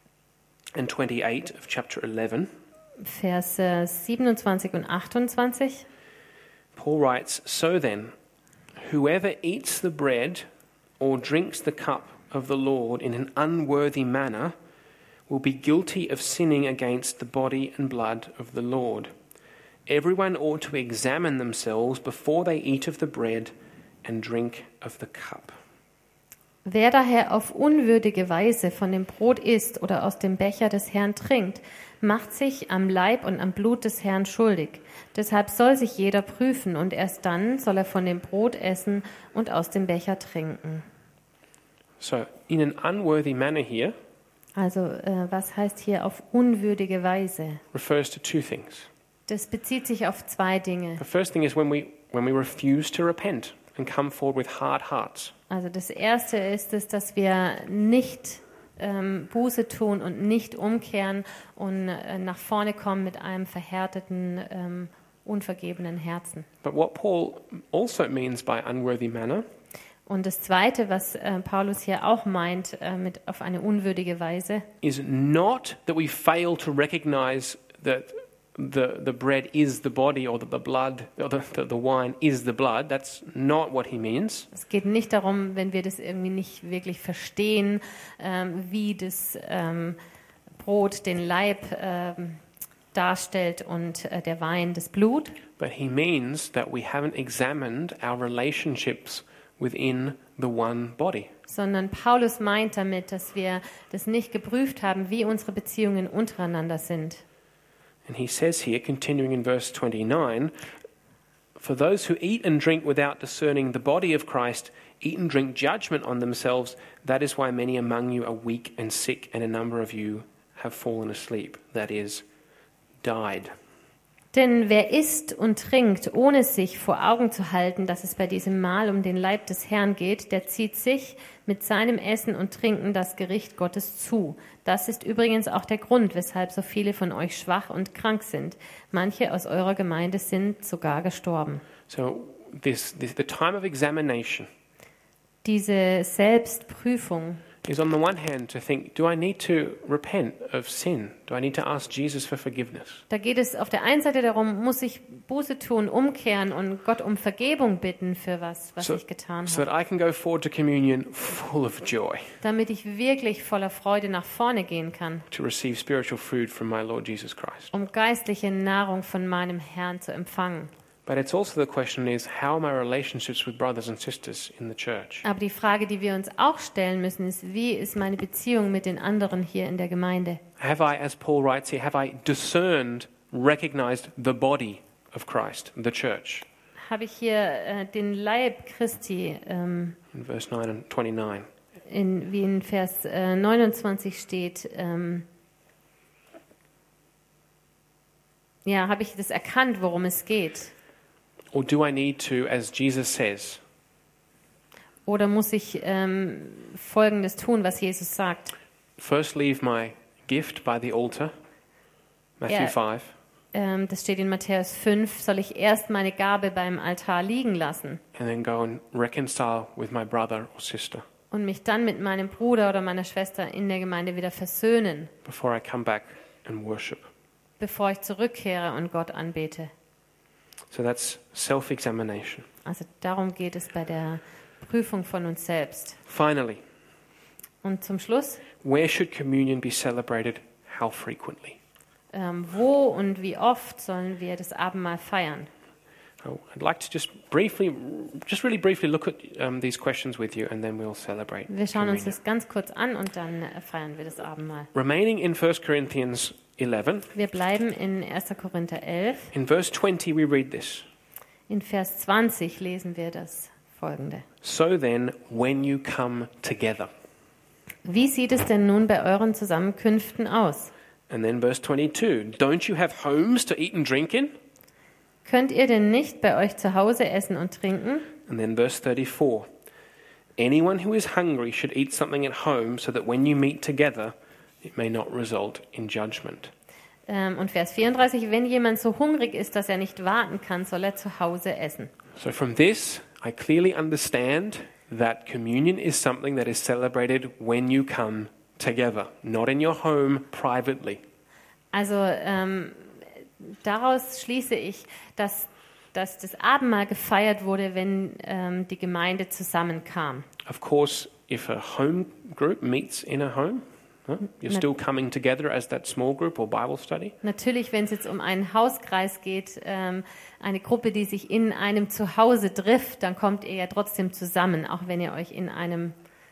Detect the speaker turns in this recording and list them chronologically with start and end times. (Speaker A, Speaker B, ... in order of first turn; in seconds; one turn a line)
Speaker A: 0.8-2.5
Speaker B: 3.0-5.9
Speaker A: 6.8-8.1
Speaker A: 8.8-10.4
Speaker A: 11.0-14.6
Speaker A: 15.3-19.1
Speaker A: 19.9-23.5
Speaker A: 24.0-25.6
Speaker B: 26.6-40.9
Speaker A: 42.0-44.0
Speaker B: 44.6-47.6
Speaker A: 47.7-48.9
Speaker B: 49.3-51.0
Speaker A: 51.0-55.3
Speaker B: 55.5-66.5
Speaker A: 66.6-69.5
Speaker B: 70.1-74.7
Speaker A: 74.8-84.5
Speaker B: 84.5-90.0
Speaker B: 90.6-92.4
Speaker B: 92.9-95.4
Speaker A: 95.6-101.3
Speaker B: 101.5-107.2
Speaker A: 108.1-110.5
Speaker A: 111.6-122.2
Speaker A: 123.0-123.5
Speaker B: 124.3-141.7
Speaker A: 141.9-144.5
Speaker B: 145.4-147.4
Speaker A: 147.6-153.0
Speaker B: 153.1-159.6
Speaker A: 158.8-162.4
Speaker B: 162.4-165.3
Speaker A: 165.3-167.7
Speaker B: 167.7-170.7
Speaker A: 171.1-175.2
Speaker B: 175.2-180.4
Speaker A: 180.6-186.5
Speaker B: 186.8-190.0
Speaker A: 190.1-191.5
Speaker B: 191.9-195.3
Speaker B: 198.7-200.7
Speaker A: 201.5-203.6
Speaker B: 205.1-208.5
Speaker A: 209.0-211.3
Speaker A: 212.4-213.1
Speaker B: 212.5-212.8
Speaker B: 213.5-218.0
Speaker A: 218.2-221.1
Speaker B: 221.3-225.1
Speaker A: 225.2-227.1
Speaker B: 227.6-229.7
Speaker A: 230.7-232.5
Speaker B: 232.7-236.0
Speaker A: 236.1-236.6
Speaker B: 237.6-238.4
Speaker A: 238.6-241.6
Speaker B: 242.1-245.5
Speaker A: 246.2-252.2
Speaker B: 251.5-254.7
Speaker A: 254.7-257.1
Speaker B: 257.1-259.3
Speaker A: 259.3-260.9
Speaker B: 261.5-264.2
Speaker A: 264.4-266.9
Speaker B: 267.9-270.7
Speaker A: 271.1-274.3
Speaker B: 275.2-278.1
Speaker A: 278.3-279.5
Speaker A: 280.4-286.5
Speaker B: 287.1-291.9
Speaker A: 292.2-301.0
Speaker B: 301.7-310.3
Speaker A: 310.4-317.1
Speaker B: 317.2-325.9